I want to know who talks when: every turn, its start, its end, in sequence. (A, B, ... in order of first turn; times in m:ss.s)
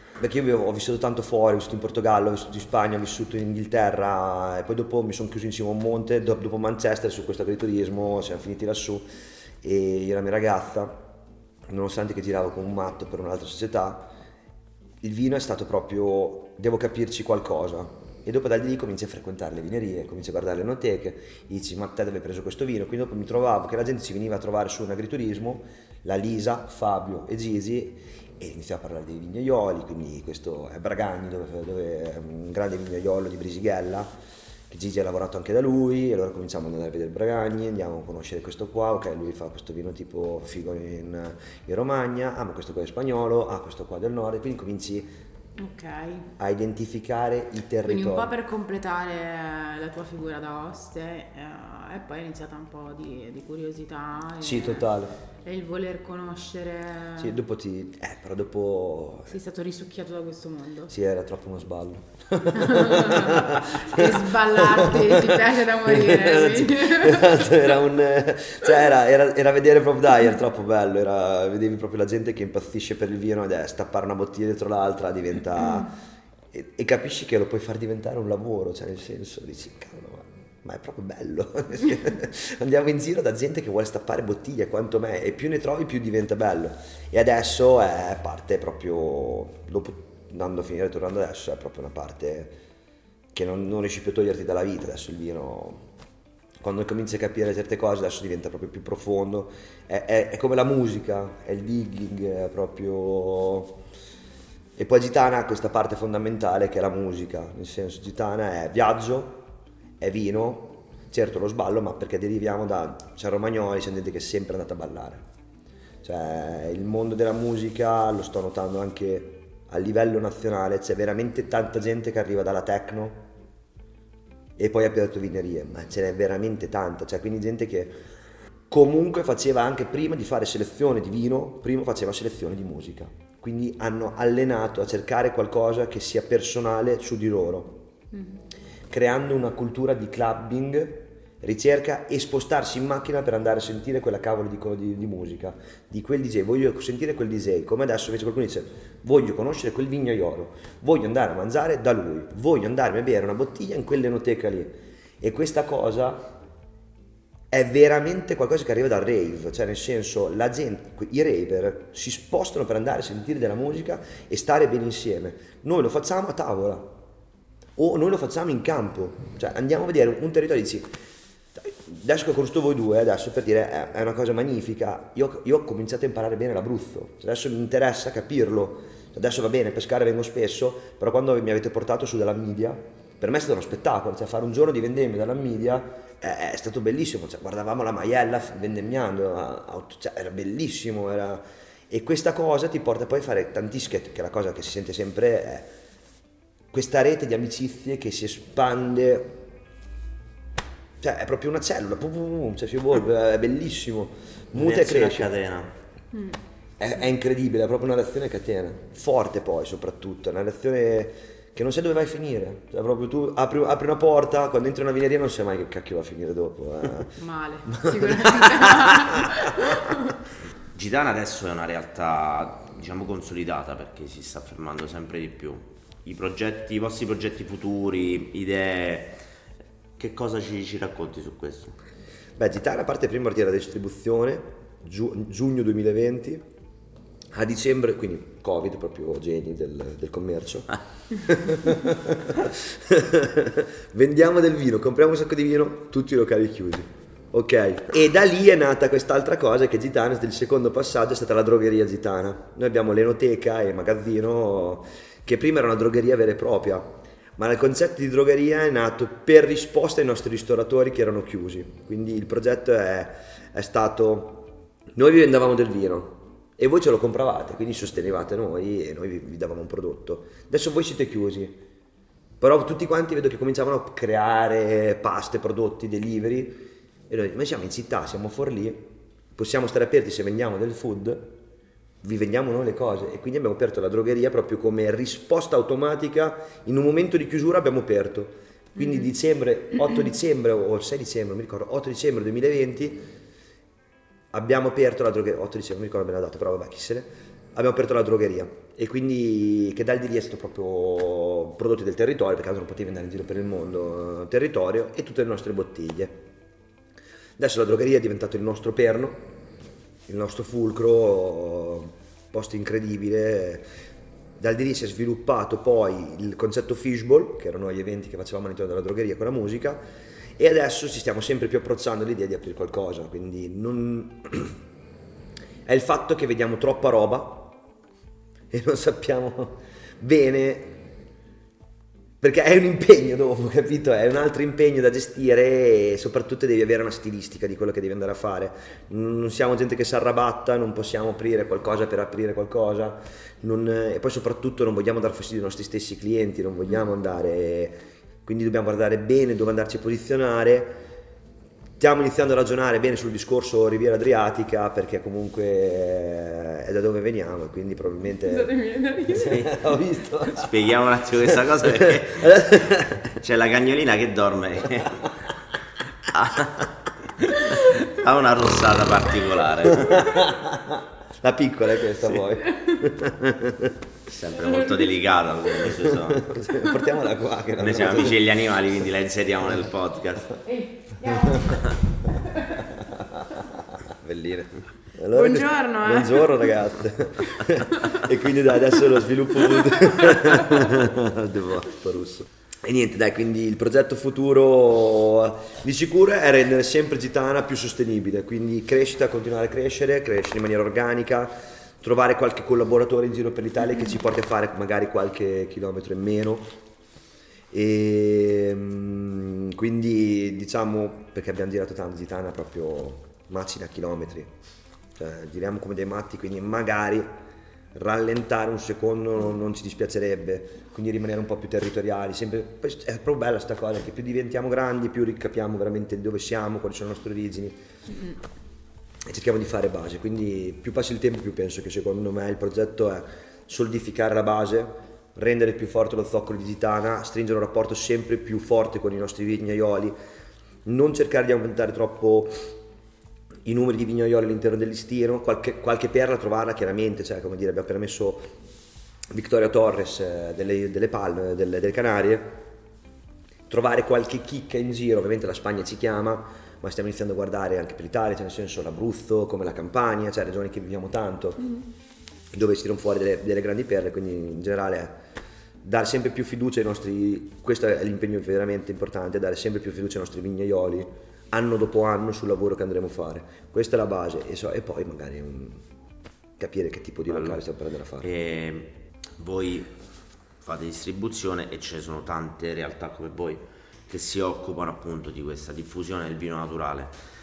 0:00.2-0:09.0 A
0:09.6-0:11.1 A
0:11.7-0:14.1 A
0:15.0-0:34.1 A
0:34.7-0:45.1 A
0:45.6-0:46.3 B
0:46.4-0:48.3 A
0:47.8-0:54.9 B
0:54.4-0:55.1 A
0:55.4-0:57.4 B
0:57.2-0:59.3 A
0:59.3-1:00.9 B
1:00.9-1:15.9 A
1:02.5-1:07.6 B
1:16.5-1:32.5 A
1:33.3-1:35.8 A
1:36.6-1:43.8 A
1:44.8-1:49.4 A
1:50.0-1:55.2 A
1:56.0-2:03.3 A
2:04.6-2:08.0 A
2:08.7-2:17.8 A
2:18.1-2:18.4 B
2:18.9-2:36.3 A
2:37.5-2:46.9 A
2:47.8-2:51.0 A
2:51.6-3:15.7 A
3:16.7-3:19.4 A
3:21.0-3:25.3 A
3:24.5-3:25.7 C
3:26.8-3:39.7 A
3:37.2-3:40.2 B
3:40.7-3:49.2 C
3:50.0-3:51.7 C
3:52.4-3:56.4 A
3:57.3-4:31.6 A
4:32.4-4:41.3 A
4:42.0-4:53.0 A
4:54.3-5:06.2 A
5:07.4-5:09.2 A
5:10.1-5:13.6 A
5:14.4-5:19.8 A
5:20.4-5:24.6 A
5:25.6-5:27.6 A
5:28.5-5:30.8 A
5:32.2-5:50.8 A
5:51.8-5:58.5 A
5:58.2-5:59.6 B
5:59.1-6:00.7 A
6:00.3-6:05.3 C
6:01.2-6:03.2 A
6:06.0-6:10.1 C
6:09.7-6:13.8 A
6:14.1-6:16.4 C
6:15.8-6:18.3 A
6:17.6-6:20.4 C
6:20.4-6:22.8 B
6:21.1-6:21.6 A
6:22.6-6:46.5 A
6:25.1-6:26.6 B
6:27.2-6:28.0 B
6:47.5-6:54.3 A
6:54.9-6:57.1 A
6:57.7-7:07.6 A
7:09.0-7:19.9 A
7:20.6-7:22.4 A
7:23.4-7:28.3 A
7:29.1-7:32.4 A
7:33.5-7:41.5 A
7:42.3-7:45.0 A
7:45.6-7:55.6 A
7:56.4-7:58.1 A
7:57.1-7:57.4 C
7:58.0-7:59.7 C
8:00.4-8:06.9 C